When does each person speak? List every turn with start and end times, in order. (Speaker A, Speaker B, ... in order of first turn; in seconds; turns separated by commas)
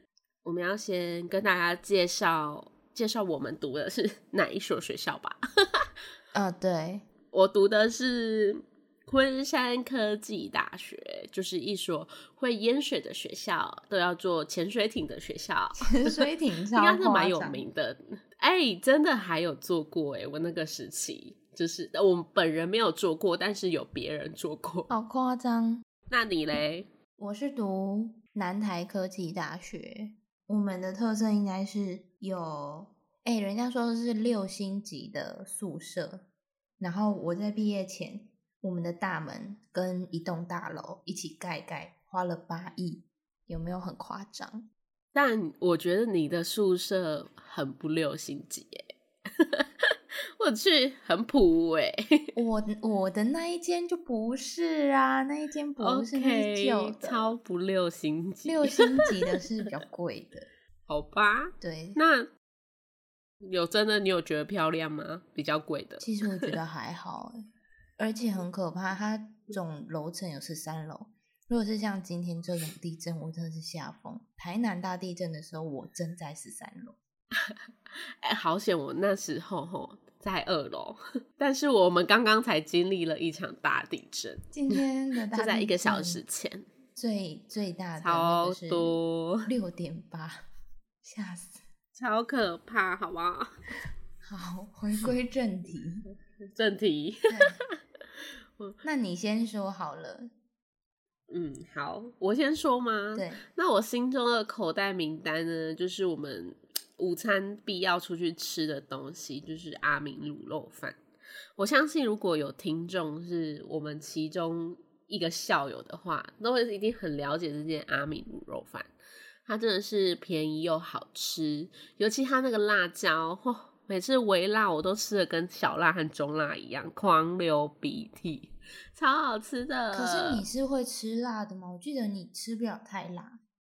Speaker A: 0.4-5.8, Speaker B: 6.3-7.1, Speaker A: 7.3-24.9, Speaker B: 15.8-17.6, Speaker B: 24.9-25.8, Speaker A: 26.1-26.9, Speaker B: 27.2-36.2, Speaker B: 36.8-44.7, Speaker A: 45.1-52.3, Speaker B: 52.3-57.4, Speaker A: 55.8-59.4, Speaker B: 58.4-60.5, Speaker A: 60.9-62.3, Speaker B: 61.6-62.0, Speaker A: 63.4-66.3, Speaker B: 66.0-67.4, Speaker B: 68.0-77.0, Speaker A: 78.2-84.8, Speaker B: 84.5-86.2, Speaker A: 85.3-86.7, Speaker B: 87.0-90.5, Speaker A: 88.0-89.5, Speaker B: 91.0-91.6, Speaker A: 92.0-93.5, Speaker B: 94.2-96.0, Speaker A: 96.5-97.6, Speaker B: 97.3-97.6, Speaker B: 98.8-100.3, Speaker A: 101.3-111.0, Speaker B: 103.1-103.4, Speaker A: 111.6-118.9, Speaker A: 119.5-130.4, Speaker B: 129.9-133.4